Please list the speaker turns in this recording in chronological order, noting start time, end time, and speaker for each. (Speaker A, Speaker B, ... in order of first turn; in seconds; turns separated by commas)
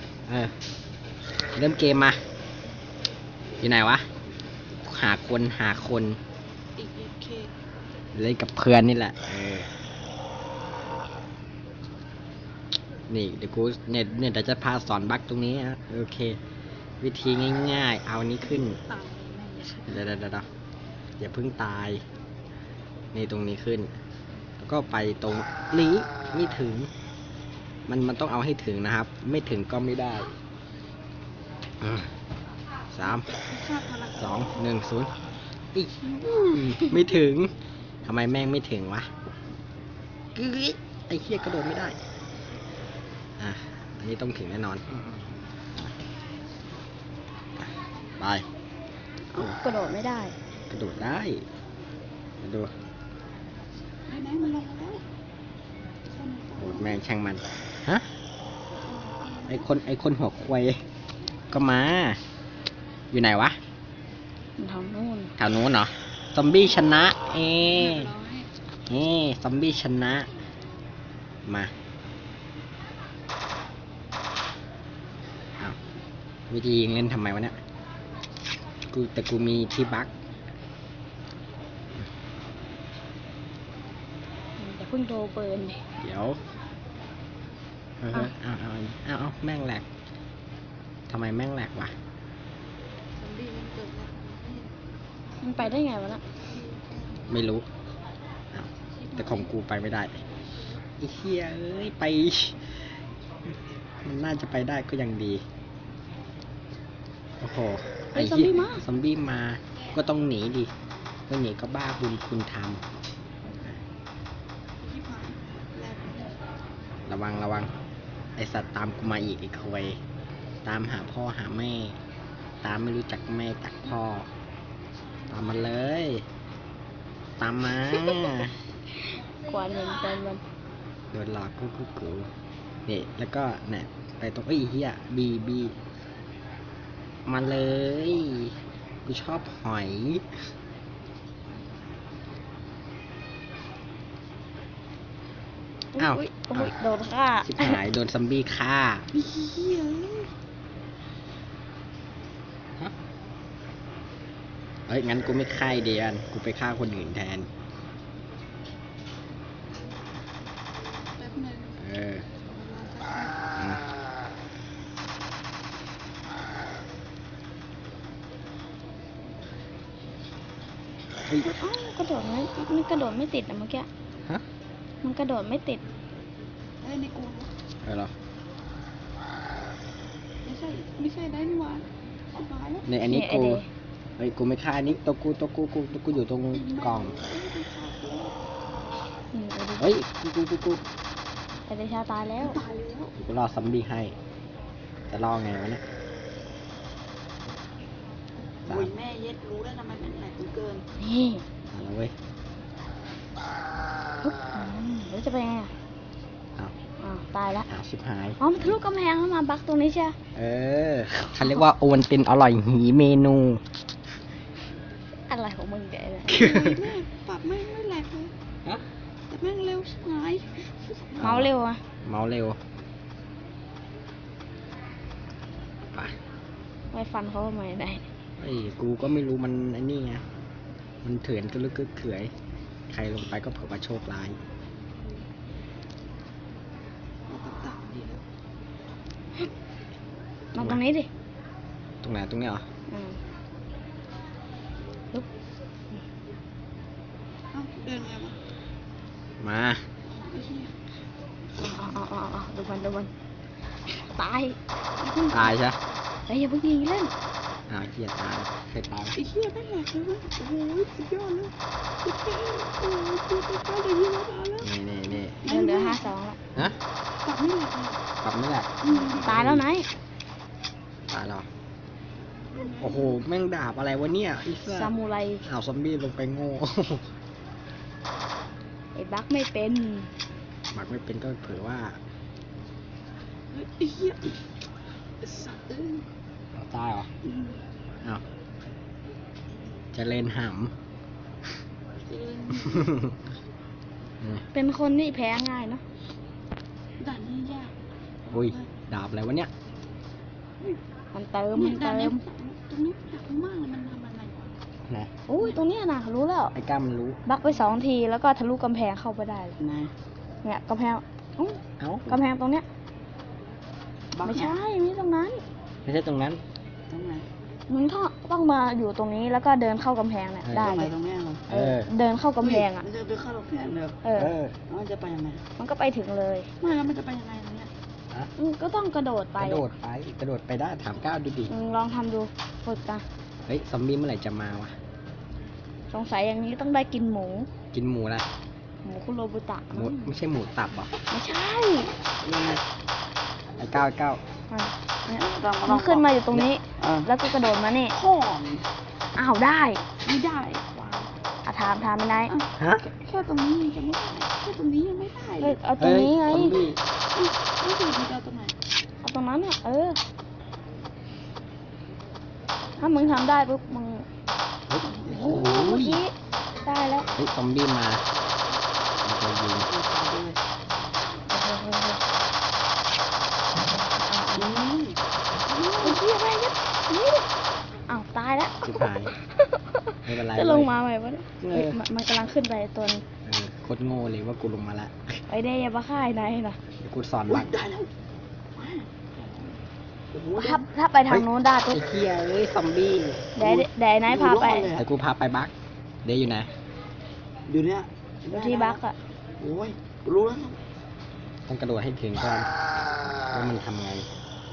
Speaker A: 0.3-0.5, Speaker A: 1.5-2.2, Speaker A: 3.6-4.1, Speaker A: 4.8-6.2, Speaker B: 6.8-7.5, Speaker A: 8.2-9.7, Speaker A: 13.1-16.4, Speaker A: 17.0-18.8, Speaker B: 18.8-19.8, Speaker A: 19.9-20.5, Speaker A: 21.2-22.1, Speaker A: 23.1-23.9, Speaker A: 24.6-26.9, Speaker A: 27.9-30.3, Speaker A: 31.8-32.1, Speaker A: 32.9-33.3, Speaker B: 33.1-34.4, Speaker A: 34.1-35.1, Speaker A: 35.7-37.5, Speaker A: 38.0-39.1, Speaker A: 40.4-42.0, Speaker A: 43.4-45.2, Speaker A: 48.2-48.5, Speaker C: 49.3-50.4, Speaker A: 50.7-51.4, Speaker A: 52.4-52.7, Speaker B: 54.1-55.0, Speaker B: 56.1-56.9, Speaker A: 56.6-58.1, Speaker B: 58.7-59.7, Speaker A: 59.5-60.8, Speaker A: 61.5-62.2, Speaker A: 63.1-63.6, Speaker C: 64.6-65.3, Speaker A: 65.4-68.1, Speaker B: 67.7-68.5, Speaker A: 68.9-70.3, Speaker A: 71.5-71.7, Speaker A: 76.5-77.6, Speaker A: 78.9-80.1, Speaker C: 84.6-85.8, Speaker A: 86.0-86.4, Speaker A: 88.0-89.8, Speaker A: 91.1-91.9, Speaker B: 93.2-94.7, Speaker C: 95.4-96.2, Speaker B: 96.5-97.2, Speaker A: 97.3-97.7, Speaker A: 98.5-100.2, Speaker A: 101.0-102.7, Speaker A: 104.0-105.4, Speaker A: 107.4-110.7, Speaker C: 108.2-108.8, Speaker A: 111.3-112.8, Speaker B: 114.8-116.3, Speaker A: 117.1-117.7, Speaker A: 118.4-120.0, Speaker A: 120.7-122.0, Speaker A: 122.6-124.3, Speaker A: 125.3-126.2, Speaker A: 127.4-128.6, Speaker C: 129.4-130.4, Speaker A: 131.1-132.3, Speaker A: 132.9-135.8, Speaker A: 137.3-140.2, Speaker C: 145.9-147.8, Speaker A: 146.0-146.7, Speaker A: 147.4-149.1, Speaker B: 149.1-150.3, Speaker A: 154.9-157.5, Speaker B: 161.2-161.8, Speaker A: 161.8-162.3, Speaker B: 162.4-163.3, Speaker A: 163.6-163.8, Speaker C: 171.4-173.9, Speaker C: 175.0-175.8, Speaker B: 176.8-177.5, Speaker A: 177.8-178.1, Speaker B: 180.4-182.9, Speaker A: 182.9-183.6, Speaker C: 183.0-183.7, Speaker A: 184.2-187.2, Speaker B: 186.5-188.4, Speaker C: 189.3-189.9, Speaker A: 189.8-190.8, Speaker C: 191.7-192.6, Speaker B: 192.4-193.1, Speaker A: 193.2-194.2, Speaker A: 195.1-195.8, Speaker B: 198.7-200.8, Speaker A: 198.7-198.9, Speaker C: 201.0-201.4, Speaker A: 201.7-202.1, Speaker C: 204.2-205.7, Speaker C: 207.0-207.7, Speaker A: 207.7-208.4, Speaker C: 208.4-210.2, Speaker A: 210.3-213.6, Speaker C: 215.3-216.6, Speaker A: 216.3-216.8, Speaker B: 216.3-218.3, Speaker B: 219.3-221.4, Speaker A: 221.2-221.5, Speaker C: 221.2-221.8, Speaker A: 222.0-222.6, Speaker C: 226.9-228.1, Speaker A: 228.4-230.2, Speaker A: 231.0-232.3, Speaker A: 232.9-234.4, Speaker B: 237.3-238.2, Speaker C: 240.5-241.1, Speaker A: 240.6-240.8, Speaker A: 242.0-242.6, Speaker C: 242.9-243.2, Speaker B: 247.5-248.4, Speaker A: 249.4-249.8, Speaker B: 250.1-250.7, Speaker C: 251.6-253.1, Speaker C: 253.9-254.6, Speaker B: 255.0-255.5, Speaker A: 255.3-255.8, Speaker C: 256.3-257.1, Speaker A: 257.7-259.2, Speaker B: 259.2-264.7, Speaker A: 264.6-265.4, Speaker C: 265.4-266.4, Speaker B: 265.5-266.1, Speaker B: 267.2-268.0, Speaker A: 268.2-269.6, Speaker B: 268.8-269.2, Speaker C: 268.9-269.9, Speaker A: 271.1-271.5, Speaker B: 272.6-272.9, Speaker A: 272.7-274.9, Speaker C: 274.7-275.4, Speaker A: 275.4-277.1, Speaker C: 278.9-280.1, Speaker A: 280.7-282.0, Speaker B: 283.5-284.4, Speaker B: 285.2-286.1, Speaker A: 286.6-287.1, Speaker B: 287.2-287.6, Speaker A: 289.9-290.7, Speaker B: 292.0-292.9, Speaker A: 292.7-293.1, Speaker C: 294.5-295.8, Speaker B: 297.0-297.8, Speaker A: 298.3-299.5, Speaker B: 298.4-298.7, Speaker C: 301.1-302.2, Speaker B: 301.6-304.5, Speaker C: 305.3-306.5, Speaker A: 306.5-307.2, Speaker C: 307.3-309.6, Speaker B: 309.6-309.9, Speaker C: 310.4-312.6, Speaker A: 311.8-312.2, Speaker B: 314.1-314.6, Speaker C: 314.2-315.4, Speaker A: 315.9-316.4, Speaker B: 316.9-317.3, Speaker C: 317.7-320.9, Speaker A: 320.4-320.8, Speaker B: 320.5-321.5, Speaker C: 321.5-322.9, Speaker A: 321.5-321.9, Speaker B: 322.4-324.0, Speaker C: 324.0-324.3, Speaker A: 324.2-324.6, Speaker B: 324.7-325.4, Speaker C: 325.6-326.5, Speaker B: 326.6-327.7, Speaker C: 328.4-329.6, Speaker A: 329.4-331.5, Speaker C: 331.5-333.0, Speaker A: 333.5-334.8, Speaker C: 335.9-337.5, Speaker A: 337.7-338.3, Speaker C: 338.9-340.1, Speaker A: 339.7-340.9, Speaker C: 341.1-342.0, Speaker B: 342.2-342.6, Speaker A: 343.6-344.2, Speaker C: 344.5-348.0, Speaker B: 345.1-347.1, Speaker B: 347.9-348.7, Speaker C: 349.1-349.9, Speaker B: 350.0-351.1, Speaker C: 351.4-352.3, Speaker B: 352.3-355.6, Speaker A: 352.6-352.9, Speaker C: 355.4-356.6, Speaker A: 355.8-356.8, Speaker B: 357.1-358.6, Speaker C: 359.0-360.0, Speaker C: 362.8-364.1, Speaker A: 364.7-366.0, Speaker B: 364.8-365.4, Speaker C: 365.0-366.1, Speaker C: 366.6-367.1, Speaker A: 367.2-368.0, Speaker A: 369.0-369.7, Speaker B: 369.6-370.4, Speaker C: 371.3-372.0, Speaker C: 373.9-374.5, Speaker B: 374.4-376.0, Speaker C: 375.8-377.3, Speaker C: 377.9-383.0, Speaker A: 378.6-379.1, Speaker A: 380.1-380.7, Speaker A: 381.4-381.8, Speaker A: 383.2-385.2, Speaker C: 385.3-386.6, Speaker A: 386.8-387.5, Speaker B: 387.3-387.9, Speaker B: 388.6-389.6, Speaker B: 390.1-390.7, Speaker C: 390.4-391.8, Speaker A: 391.1-393.3, Speaker C: 393.4-394.7, Speaker B: 393.4-394.9, Speaker A: 394.8-395.5, Speaker A: 396.1-396.5, Speaker B: 397.5-398.8, Speaker C: 398.3-399.0, Speaker B: 399.4-400.6, Speaker A: 401.5-402.5, Speaker A: 403.2-404.1